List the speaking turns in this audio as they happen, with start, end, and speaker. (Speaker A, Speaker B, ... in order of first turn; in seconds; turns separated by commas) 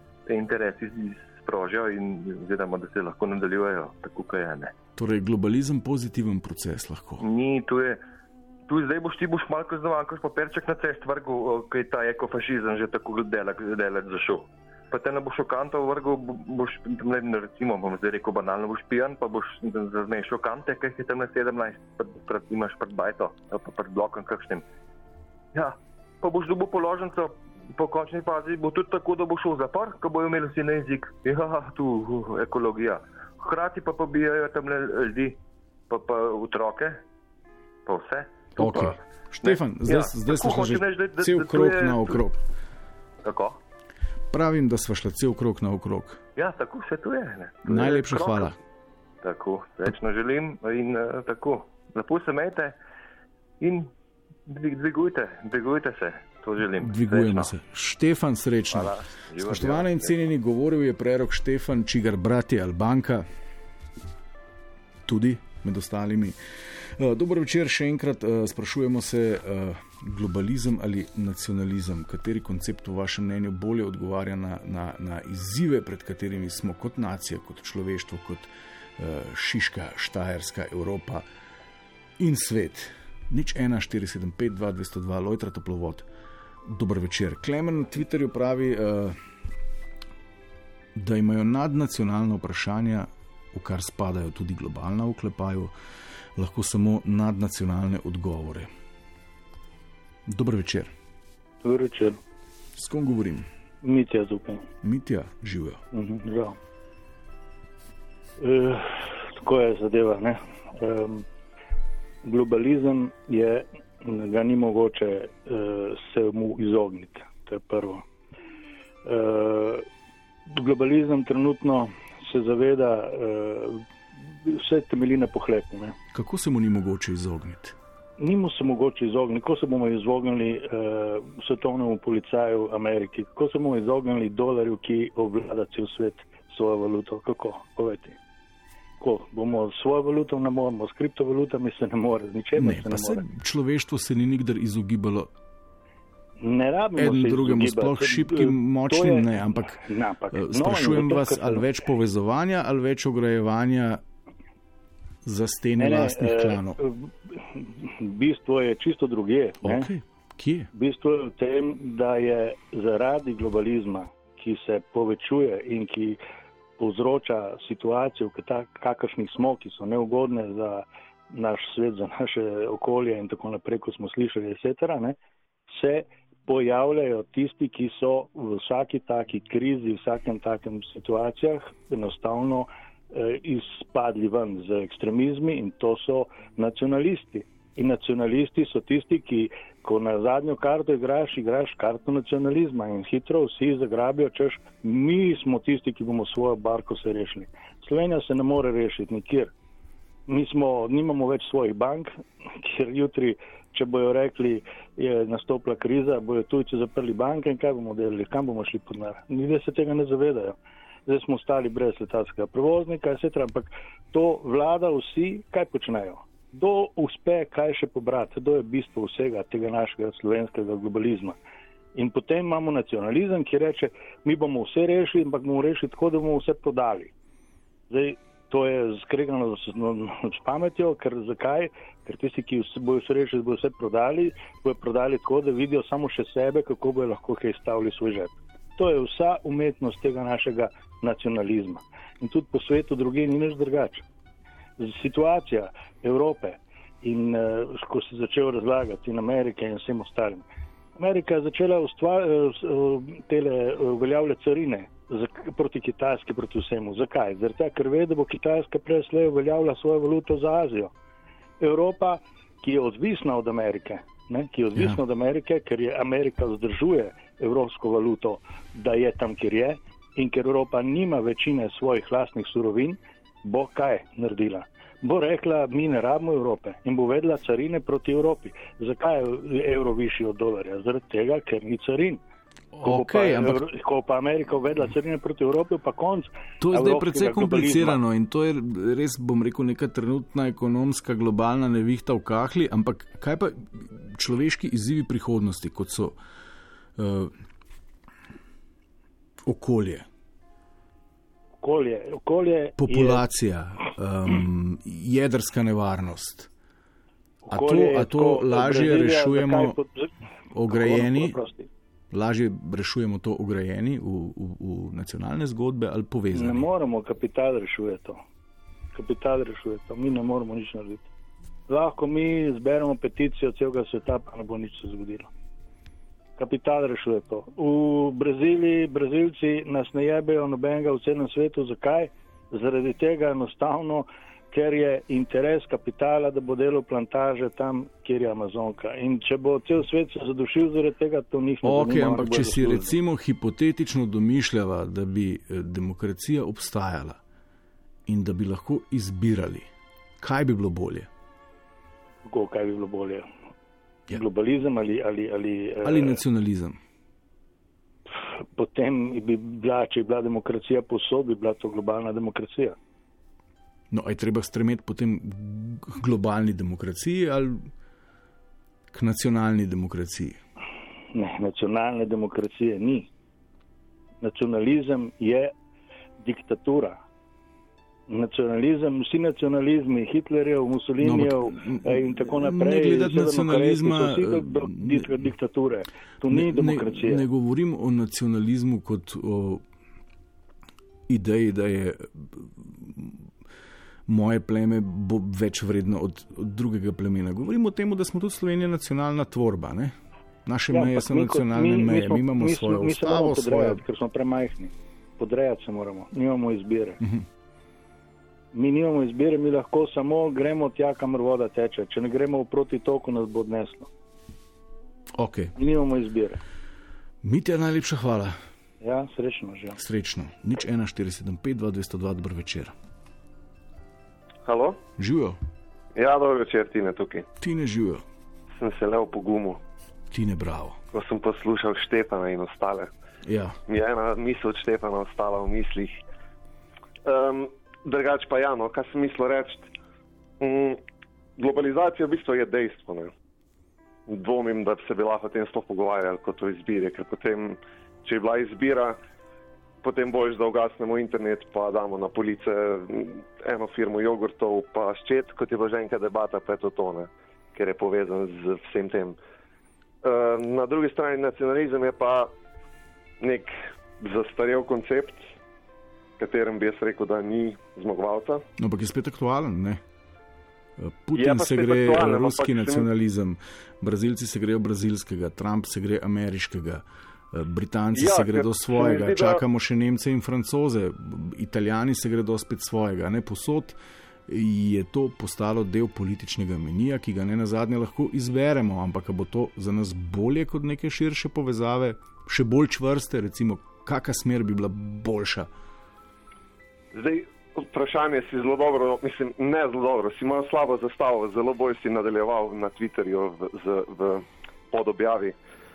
Speaker A: 0.3-4.7, Speaker B: 5.0-7.2, Speaker A: 7.2-8.0, Speaker A: 8.7-24.6, Speaker A: 25.5-35.4, Speaker A: 35.9-37.0, Speaker A: 37.9-42.2, Speaker B: 38.6-42.4, Speaker A: 43.2-43.6, Speaker B: 44.3-46.2, Speaker A: 46.4-48.5, Speaker B: 47.6-48.6, Speaker A: 49.2-52.8, Speaker A: 53.6-53.9, Speaker A: 54.5-57.5, Speaker B: 56.8-63.3, Speaker A: 58.7-60.1, Speaker B: 65.1-81.2, Speaker B: 82.2-86.1, Speaker B: 86.7-89.2, Speaker B: 91.0-95.7, Speaker B: 96.4-98.7, Speaker B: 100.3-100.9, Speaker C: 101.6-102.2, Speaker B: 102.8-103.5, Speaker C: 103.8-104.7, Speaker B: 104.8-105.8, Speaker C: 105.9-106.6, Speaker C: 108.4-111.2, Speaker C: 112.2-118.0, Speaker C: 119.0-119.9, Speaker C: 120.5-126.0, Speaker B: 126.1-127.8, Speaker C: 128.2-138.2, Speaker C: 139.0-143.2, Speaker B: 142.6-145.3, Speaker C: 146.4-151.7, Speaker B: 147.0-149.8, Speaker B: 150.3-154.0, Speaker B: 155.2-156.8, Speaker C: 155.8-159.9, Speaker B: 159.6-160.7, Speaker C: 160.7-166.2, Speaker C: 166.8-175.2, Speaker C: 175.7-199.5, Speaker C: 200.3-221.4, Speaker C: 221.9-227.1, Speaker C: 227.9-244.1, Speaker C: 244.8-260.9, Speaker C: 261.6-282.2, Speaker B: 282.7-283.7, Speaker C: 282.8-288.0, Speaker B: 286.6-296.2, Speaker B: 297.0-297.4, Speaker B: 299.4-300.1, Speaker C: 301.6-303.2, Speaker B: 302.8-306.5, Speaker C: 307.4-310.1, Speaker B: 307.5-309.8, Speaker B: 310.5-311.4, Speaker C: 310.7-311.7, Speaker B: 312.1-316.7, Speaker C: 316.3-318.2, Speaker C: 318.9-321.1, Speaker C: 321.7-325.3, Speaker C: 326.4-343.0, Speaker B: 341.6-347.2, Speaker B: 348.1-349.7, Speaker B: 350.2-351.1, Speaker C: 352.2-353.3, Speaker C: 354.1-356.2, Speaker B: 355.8-356.8, Speaker C: 358.6-362.8, Speaker B: 363.9-367.7, Speaker B: 368.9-370.4, Speaker C: 371.1-373.1, Speaker C: 374.2-375.5, Speaker C: 376.2-377.0, Speaker C: 378.1-387.2, Speaker B: 381.0-385.2, Speaker B: 386.3-389.6, Speaker B: 391.1-393.3, Speaker B: 394.1-399.9, Speaker B: 400.5-403.8, Speaker C: 400.7-407.0, Speaker C: 408.5-413.9, Speaker B: 415.2-415.5, Speaker C: 415.6-416.4, Speaker B: 417.2-418.4, Speaker C: 418.8-419.8, Speaker B: 419.8-422.7, Speaker D: 424.4-424.8, Speaker B: 425.0-425.4, Speaker D: 426.0-427.3, Speaker B: 427.4-428.0, Speaker D: 428.6-429.6, Speaker B: 430.1-430.8, Speaker D: 430.9-432.9, Speaker B: 433.2-433.6, Speaker D: 433.7-436.0, Speaker D: 437.0-439.7, Speaker D: 440.4-440.8, Speaker D: 441.4-443.1, Speaker D: 444.1-449.0, Speaker D: 449.8-459.2, Speaker D: 460.0-462.3, Speaker D: 463.2-465.3, Speaker D: 466.2-468.4, Speaker B: 468.6-469.8, Speaker B: 470.8-495.5, Speaker D: 471.1-472.9, Speaker D: 477.9-479.4, Speaker D: 496.9-505.4